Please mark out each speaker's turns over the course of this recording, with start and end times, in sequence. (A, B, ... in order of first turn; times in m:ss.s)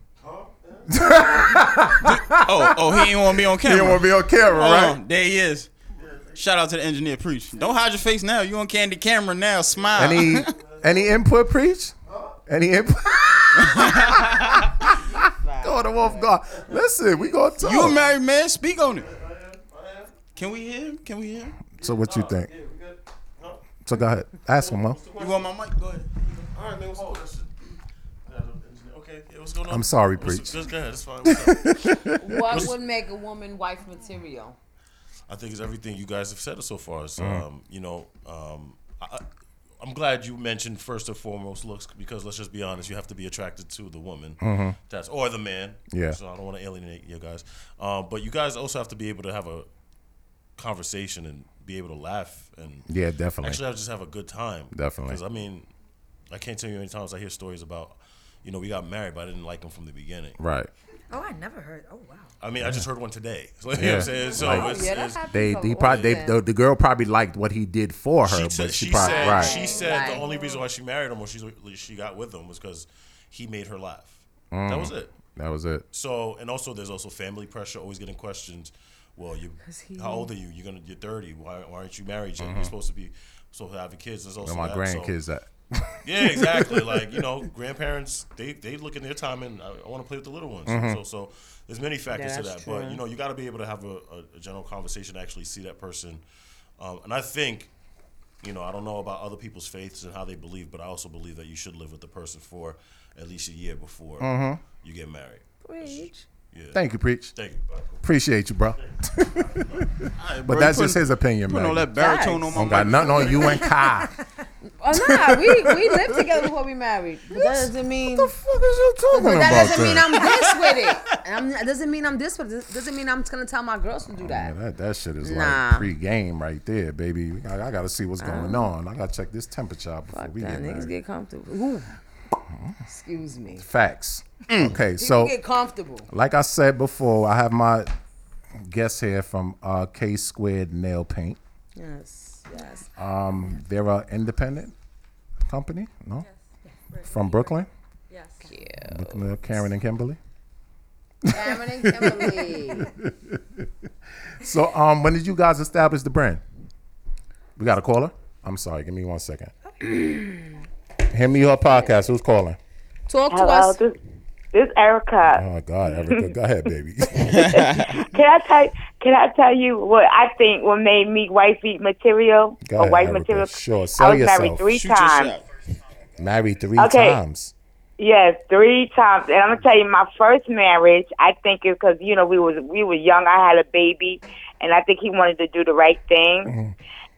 0:00.2-0:01.8 A
0:00.9-0:05.0 B
0:02.0-0:05.7 C
0:05.9-0:06.4 A
0:06.4-0:10.6 C
0:09.7-0:11.2 A
0:10.0-0:15.0 B
0:12.1-0:12.4 A
0:13.6-0:14.5 C
0:14.7-0:16.4 D
0:15.6-0:18.0 B
0:17.6-0:19.1 C
0:19.0-0:20.3 A
0:20.3-0:21.6 C
0:21.7-0:22.5 B
0:21.8-0:23.6 A
0:23.8-0:25.0 B
0:24.5-0:27.6 A
0:25.2-0:26.1 C
0:28.3-0:32.8 A
0:29.7-0:30.6 B
0:31.3-0:32.7 B
0:32.2-0:34.6 D
0:35.3-0:39.2 A
0:37.2-0:37.5 B
0:39.8-0:49.7 A
0:44.4-0:44.8 B
0:45.9-0:46.2 B
0:50.6-0:52.9 A
0:52.9-0:53.6 B
0:53.4-0:55.7 A
0:54.7-0:55.2 B
0:56.3-1:00.4 A
1:00.4-1:00.7 B
1:01.1-1:02.3 E
1:02.4-1:06.2 A
1:02.6-1:02.9 B
1:03.7-1:09.6 B
1:04.2-1:06.4 D
1:08.2-1:15.2 A
1:08.9-1:10.6 D
1:14.5-1:15.9 B
1:15.9-1:25.2 A
1:19.6-1:20.3 D
1:22.4-1:22.7 B
1:24.4-1:27.2 B
1:26.0-1:36.2 A
1:30.7-1:31.0 B
1:32.1-1:33.0 D
1:36.8-1:37.7 A
1:38.4-1:48.1 A
1:44.2-1:44.6 B
1:45.6-1:46.3 D
1:46.7-1:47.3 B
1:48.0-1:51.9 B
1:48.8-1:49.8 A
1:50.2-1:53.7 C
1:52.0-1:52.6 D
1:52.5-1:54.1 B
1:52.7-1:53.2 A
1:53.4-1:54.3 E
1:54.8-1:58.3 D
1:54.9-1:56.4 B
1:57.3-2:00.3 B
1:59.1-2:04.5 D
2:00.2-2:01.0 C
2:04.2-2:10.9 B
2:05.2-2:05.9 D
2:08.2-2:08.7 D
2:10.1-2:12.0 D
2:12.5-2:12.8 B
2:12.9-2:13.7 D
2:13.6-2:15.4 B
2:14.5-2:14.8 C
2:15.0-2:16.1 D
2:16.1-2:17.9 B
2:18.6-2:21.4 B
2:21.8-2:22.9 D
2:23.0-2:24.7 B
2:25.5-2:26.3 B
2:26.2-2:28.6 F
2:27.1-2:27.7 B
2:28.4-2:29.3 D
2:28.8-2:30.2 B
2:31.2-2:33.7 B
2:31.3-2:32.9 D
2:34.3-2:36.4 B
2:37.6-2:39.5 B
2:39.8-2:40.5 D
2:41.1-2:42.6 B
2:41.7-2:42.0 D
2:43.1-2:43.8 D
2:43.3-2:44.0 G
2:44.5-2:45.4 G
2:45.3-2:47.8 B
2:46.0-2:46.3 G
2:47.2-2:48.1 C
2:48.0-2:55.3 G
2:52.6-2:54.6 B
2:54.7-2:55.5 C
2:56.2-2:57.5 B
2:56.8-2:57.2 G
2:58.0-3:06.5 G
3:06.5-3:06.8 B